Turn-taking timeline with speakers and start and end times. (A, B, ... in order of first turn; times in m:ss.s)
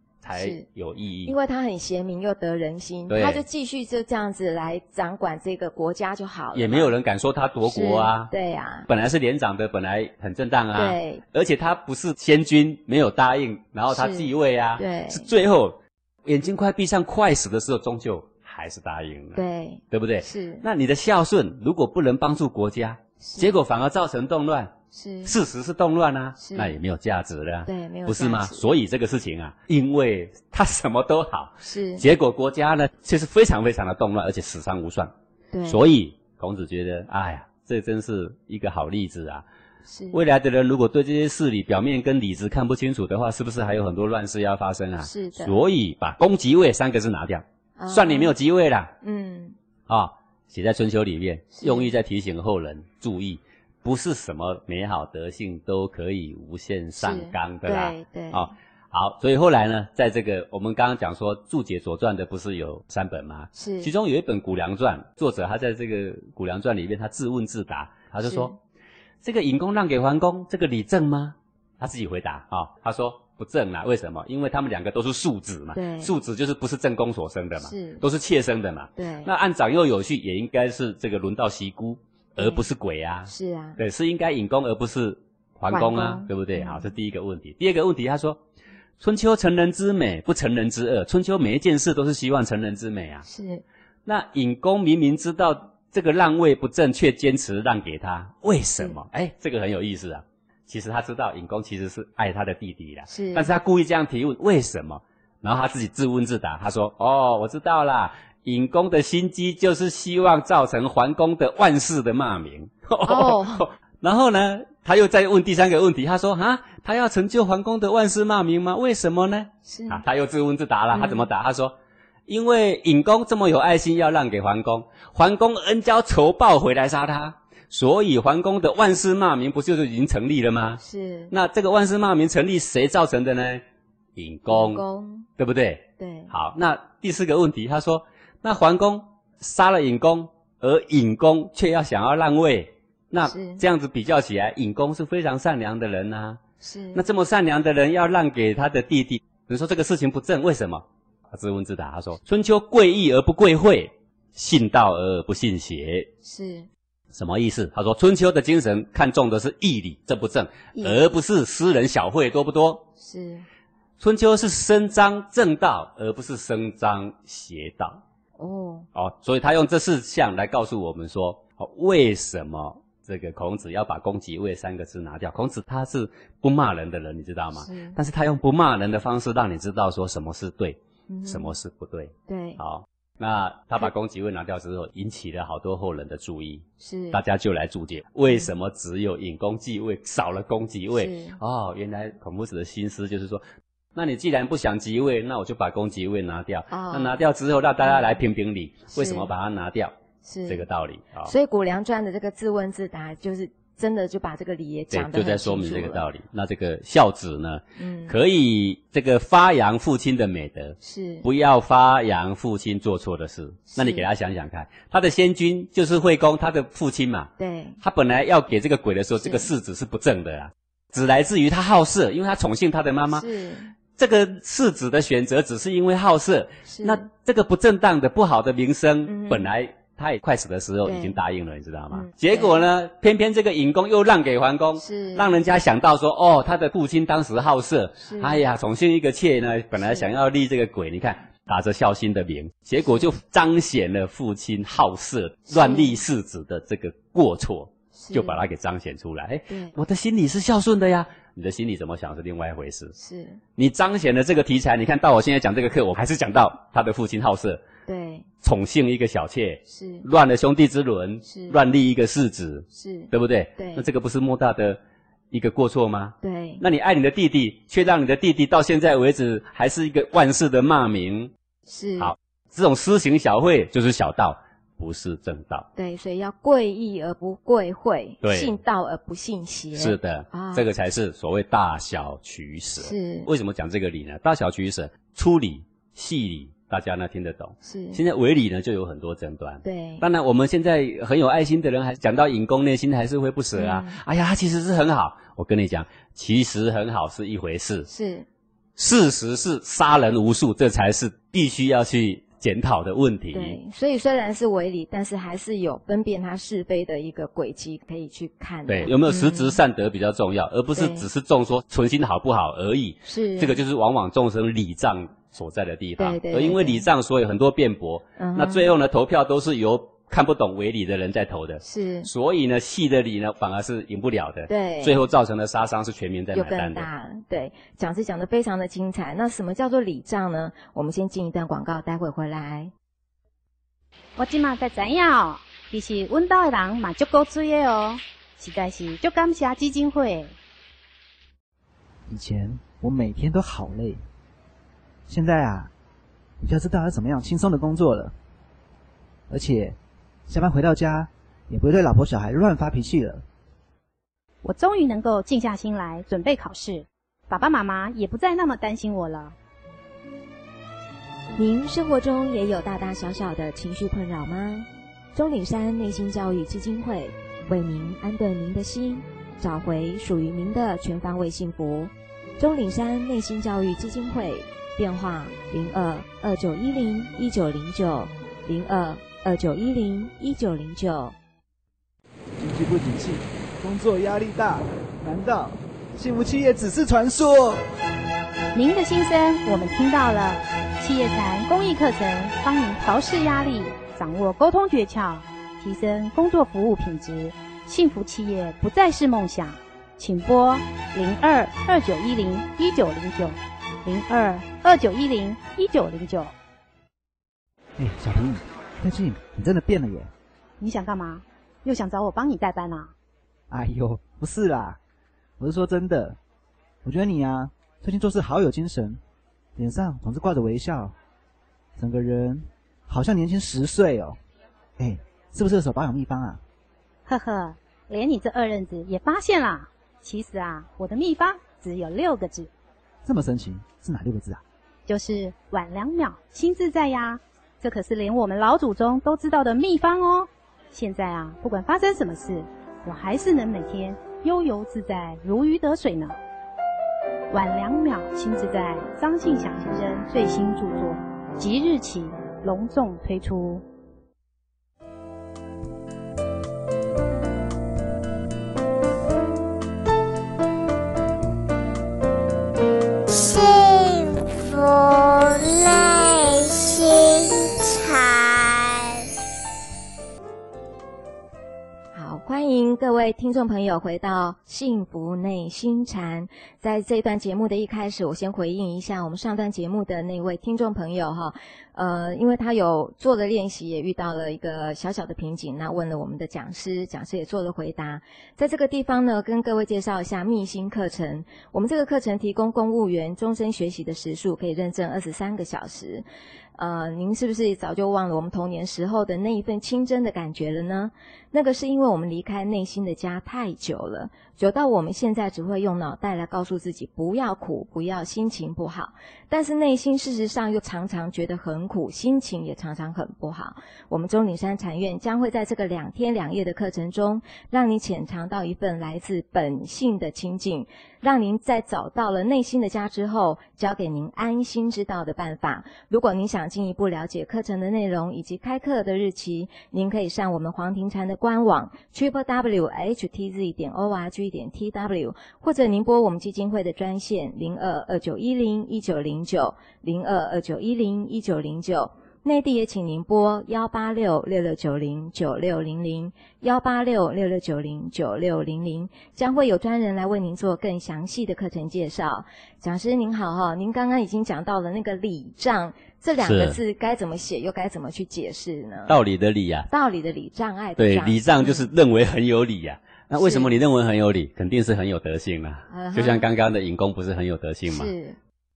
0:00.2-0:01.3 A
0:00.3-0:00.6 B
0:01.2-0:06.9 B
0:03.1-0:03.4 A
0:06.5-0:08.3 A
0:07.6-0:08.9 B
0:08.9-0:24.7 A
0:10.7-0:11.2 B
0:13.9-0:15.3 B
0:19.3-0:20.6 B
0:23.2-0:23.6 B
0:24.9-0:25.3 B
0:25.2-0:35.1 A
0:26.4-0:26.8 B
0:27.6-0:28.6 B
0:31.6-0:32.0 B
0:35.5-0:35.8 B
0:35.6-0:39.4 A
0:39.9-0:40.2 B
0:40.1-0:48.9 A
0:45.0-0:45.6 B
0:47.8-0:48.3 B
0:49.0-0:49.6 B
0:49.9-1:08.5 A
0:51.5-0:51.9 B
0:57.0-0:58.5 B
1:03.5-1:03.9 B
1:08.2-1:08.6 B
1:09.2-1:28.4 A
1:15.7-1:16.1 B
1:17.6-1:18.0 B
1:19.0-1:19.3 B
1:22.4-1:22.6 B
1:23.3-1:23.8 B
1:25.7-1:26.9 B
1:29.0-1:33.2 A
1:33.2-1:33.6 B
1:34.0-2:01.7 A
1:43.1-1:43.5 B
1:53.0-1:53.7 B
1:59.6-2:00.0 B
2:00.9-2:01.3 B
2:02.3-2:13.6 A
2:10.8-2:11.3 B
2:14.2-2:14.8 A
2:14.5-2:15.3 B
2:15.4-2:26.4 A
2:16.0-2:16.3 B
2:23.2-2:23.6 B
2:26.6-2:27.0 B
2:26.9-2:36.1 A
2:36.2-2:36.7 B
2:37.1-2:42.8 A
2:40.7-2:41.0 B
2:43.0-2:43.4 B
2:44.0-2:48.0 A
2:48.4-2:48.9 B
2:48.9-3:19.9 A
2:57.6-2:58.0 B
3:01.1-3:01.5 B
3:02.3-3:02.6 B
3:06.8-3:07.2 B
3:10.9-3:11.4 B
3:16.7-3:17.2 B
3:17.8-3:18.1 B
3:18.9-3:19.3 B
3:20.2-3:20.6 B
3:20.5-3:21.3 A
3:21.2-3:26.0 B
3:24.9-3:37.3 A
3:27.8-3:28.2 B
3:30.8-3:31.2 B
3:33.7-3:34.0 B
3:37.4-3:37.8 B
3:37.8-3:43.3 A
3:39.2-3:39.5 B
3:43.1-3:43.7 B
3:43.9-4:12.9 A
3:46.7-3:47.1 B
3:49.0-3:49.5 B
3:50.8-3:51.2 B
3:51.9-3:52.6 B
3:54.8-3:55.4 B
3:58.0-3:58.4 B
3:59.8-4:00.1 B
4:05.5-4:06.0 B
4:07.9-4:08.4 B
4:09.5-4:09.7 B
4:13.0-4:13.4 B
4:13.6-4:17.6 A
4:17.9-4:18.3 B
4:18.4-4:24.8 A
4:19.7-4:20.0 B
4:21.2-4:21.6 B
4:22.7-4:23.9 B
4:25.3-4:31.3 A
4:26.2-4:26.6 B
4:31.7-4:32.1 B
4:32.0-4:35.7 A
4:35.8-4:40.7 B
4:38.2-4:38.6 A
4:39.7-4:57.9 A
4:42.8-4:43.3 B
4:47.6-4:48.0 B
4:49.6-4:50.0 B
4:53.5-4:54.0 B
4:57.9-4:58.2 B
4:58.8-5:03.6 A
5:03.3-5:09.6 B
5:08.7-5:26.9 A
5:10.8-5:11.1 B
5:13.0-5:13.6 B
5:16.0-5:16.8 B
5:18.2-5:18.7 B
5:21.6-5:22.1 B
5:24.5-5:25.1 B
5:26.3-5:32.7 B
5:34.2-5:40.3 C
5:42.1-5:44.0 D
5:45.1-5:45.7 D
5:46.4-5:48.1 D
5:49.3-5:49.8 D
5:50.3-5:53.2 D
5:54.4-5:59.3 C
6:01.4-6:21.1 B
6:22.4-6:27.6 D
6:28.5-6:46.3 C
6:47.8-6:50.1 D
6:50.6-6:52.9 C
6:53.5-6:54.8 D
6:55.4-6:56.2 D
6:56.8-6:59.0 D
6:59.6-7:00.9 D
7:01.8-7:04.2 D
7:04.8-7:06.4 D
7:07.0-7:12.5 C
7:13.0-7:14.4 D
7:14.9-7:26.2 C
7:27.3-7:33.6 C
7:43.1-7:49.0 E
7:51.9-8:16.0 B
8:16.6-9:19.0 B
9:16.2-9:16.6 A
9:18.9-9:19.7 A
9:19.7-9:21.7 B
9:20.8-9:27.9 A
9:23.2-9:23.5 B
9:25.7-9:26.3 B
9:27.7-9:28.2 B